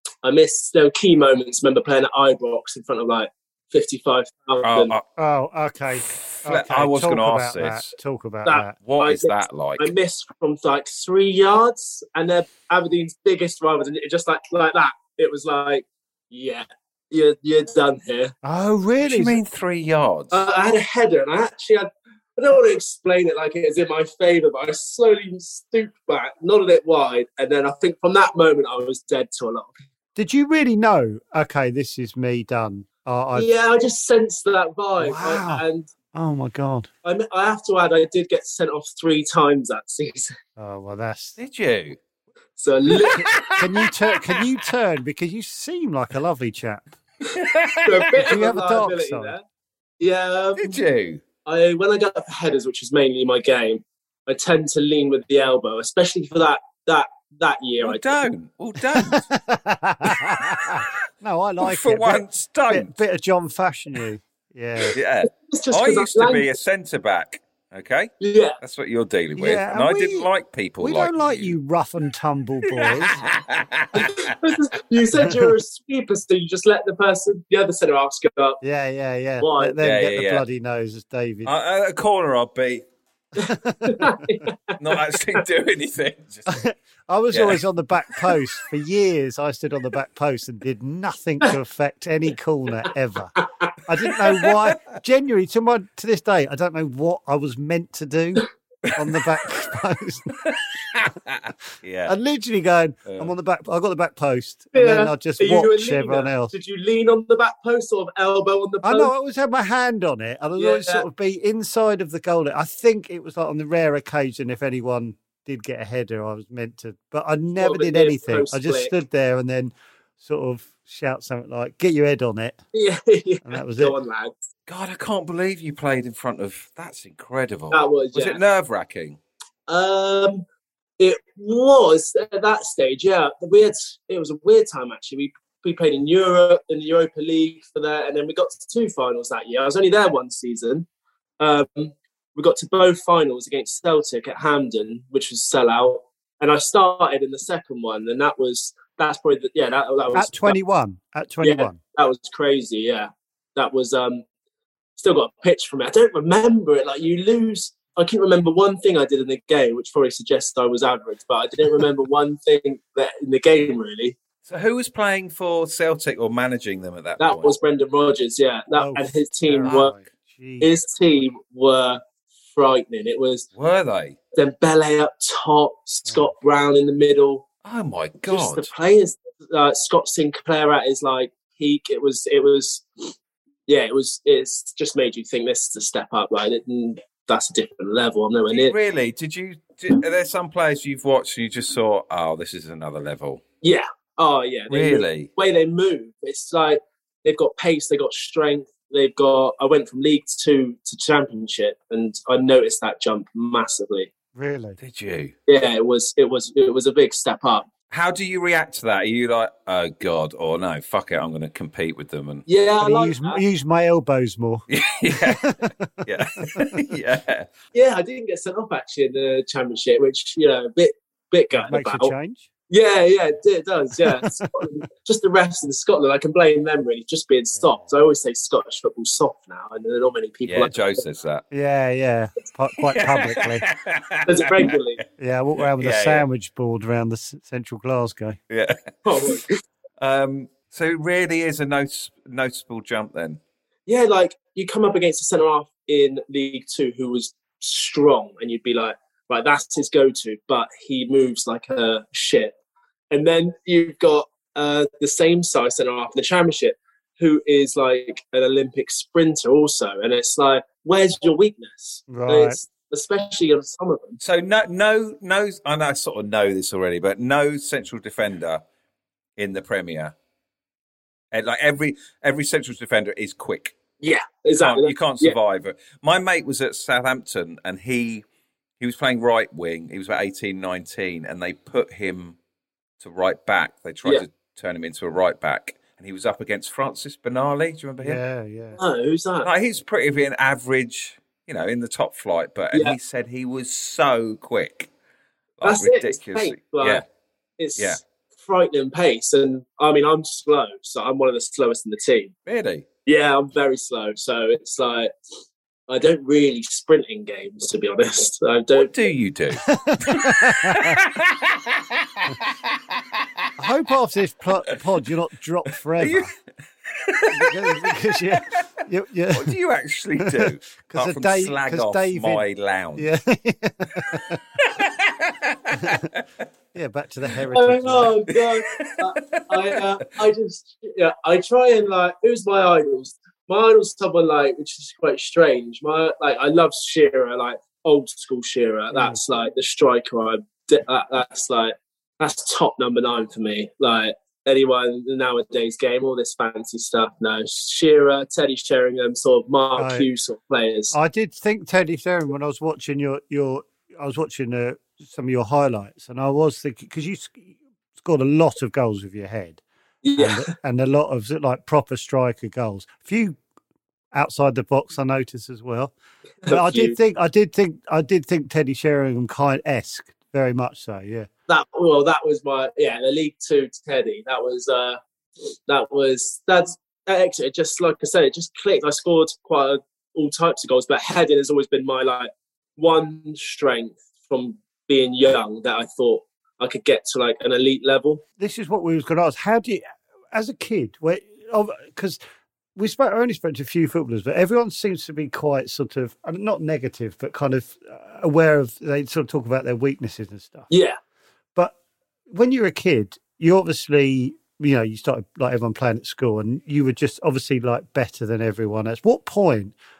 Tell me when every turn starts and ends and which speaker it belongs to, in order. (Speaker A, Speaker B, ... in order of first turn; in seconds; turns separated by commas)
Speaker A: 0.2-4.9, Speaker B: 4.6-5.0, Speaker C: 5.2-8.7, Speaker B: 6.0-7.9, Speaker A: 8.4-18.3, Speaker B: 8.8-9.9, Speaker C: 18.4-19.4, Speaker B: 19.0-20.4, Speaker A: 20.3-29.7, Speaker C: 30.1-33.5, Speaker A: 33.3-35.9, Speaker C: 35.0-36.9, Speaker A: 37.0-40.3, Speaker C: 40.6-41.4, Speaker B: 41.4-42.0, Speaker A: 42.6-43.3, Speaker B: 42.9-44.4, Speaker C: 43.1-46.9, Speaker B: 47.3-48.1, Speaker A: 47.8-49.4, Speaker C: 48.2-49.3, Speaker A: 50.0-50.8, Speaker B: 50.6-51.2, Speaker A: 51.5-58.2, Speaker B: 57.8-59.2, Speaker C: 59.0-65.0, Speaker B: 60.1-60.8, Speaker B: 61.6-62.9, Speaker B: 64.9-71.5, Speaker A: 65.3-66.5, Speaker A: 68.2-68.6, Speaker C: 69.4-70.3, Speaker C: 70.8-73.2, Speaker B: 72.7-74.2, Speaker A: 73.9-78.6, Speaker C: 75.1-75.5, Speaker C: 78.6-81.5, Speaker A: 79.4-79.8, Speaker B: 79.8-80.4, Speaker B: 81.4-82.8, Speaker A: 83.4-85.4, Speaker C: 83.4-84.2, Speaker B: 84.8-86.6, Speaker C: 86.5-93.3, Speaker B: 87.3-87.6, Speaker A: 93.4-93.7, Speaker C: 93.9-98.4, Speaker B: 98.9-99.1, Speaker C: 99.0-100.3, Speaker B: 100.4-102.1, Speaker C: 102.0-106.5, Speaker B: 103.0-103.3, Speaker A: 104.7-109.1, Speaker C: 108.8-122.6, Speaker A: 110.6-111.0, Speaker A: 117.6-118.9, Speaker A: 122.7-124.3, Speaker C: 123.4-123.9, Speaker B: 124.7-129.2, Speaker A: 127.7-128.4, Speaker A: 129.7-130.4, Speaker A: 131.0-140.9, Speaker A: 141.4-150.6, Speaker C: 150.1-151.8, Speaker A: 151.4-154.2, Speaker A: 155.0-164.2, Speaker B: 164.4-167.5, Speaker A: 167.2-169.9, Speaker C: 168.8-170.7, Speaker A: 170.6-172.0, Speaker A: 172.5-173.5, Speaker B: 173.5-174.2, Speaker A: 174.3-177.4, Speaker B: 177.6-178.7, Speaker A: 178.3-183.1, Speaker A: 183.7-188.7, Speaker B: 188.5-193.4, Speaker A: 193.6-204.1, Speaker B: 194.7-195.3, Speaker C: 204.3-204.8, Speaker B: 204.8-205.3, Speaker A: 205.5-207.7, Speaker B: 207.9-212.4, Speaker A: 212.4-213.4, Speaker C: 212.8-216.8, Speaker B: 214.7-217.5, Speaker A: 217.7-222.1, Speaker C: 221.6-222.5, Speaker A: 222.7-231.0, Speaker C: 224.0-224.5, Speaker C: 227.6-227.8, Speaker B: 230.5-231.4, Speaker C: 231.5-233.6, Speaker B: 232.8-234.7, Speaker A: 234.2-235.0, Speaker C: 235.2-238.4, Speaker B: 235.6-236.2, Speaker B: 238.5-239.4, Speaker A: 239.0-239.5, Speaker B: 240.0-243.4, Speaker A: 243.9-252.5, Speaker A: 253.1-264.2, Speaker C: 262.1-262.6, Speaker B: 264.2-268.6, Speaker B: 269.4-270.1, Speaker B: 271.3-273.7, Speaker A: 274.0-275.4, Speaker B: 274.6-278.2, Speaker B: 278.8-282.4, Speaker B: 283.0-288.2, Speaker C: 288.0-288.8, Speaker A: 288.8-289.5, Speaker B: 289.4-294.9, Speaker B: 295.6-297.0, Speaker A: 295.6-297.0, Speaker A: 297.6-302.3, Speaker B: 302.5-302.9, Speaker A: 303.1-305.1, Speaker A: 305.9-308.9, Speaker B: 308.8-313.5, Speaker C: 309.6-311.0, Speaker C: 313.6-316.3, Speaker B: 316.0-316.3, Speaker B: 316.9-318.6, Speaker C: 317.3-319.5, Speaker B: 319.3-323.1, Speaker C: 320.2-322.4, Speaker C: 322.9-324.4, Speaker B: 324.1-326.2, Speaker C: 325.8-326.1, Speaker C: 326.7-328.1, Speaker A: 327.5-350.9, Speaker B: 328.4-329.8, Speaker C: 338.9-339.2, Speaker C: 349.8-350.1, Speaker C: 350.9-359.6, Speaker A: 360.0-360.5, Speaker C: 360.1-363.4, Speaker C: 364.1-365.9, Speaker A: 366.4-367.0, Speaker C: 366.5-371.3, Speaker A: 371.5-375.0, Speaker A: 375.7-388.2, Speaker C: 388.4-392.2, Speaker C: 392.8-400.7, Speaker A: 400.7-401.0, Speaker C: 402.3-409.7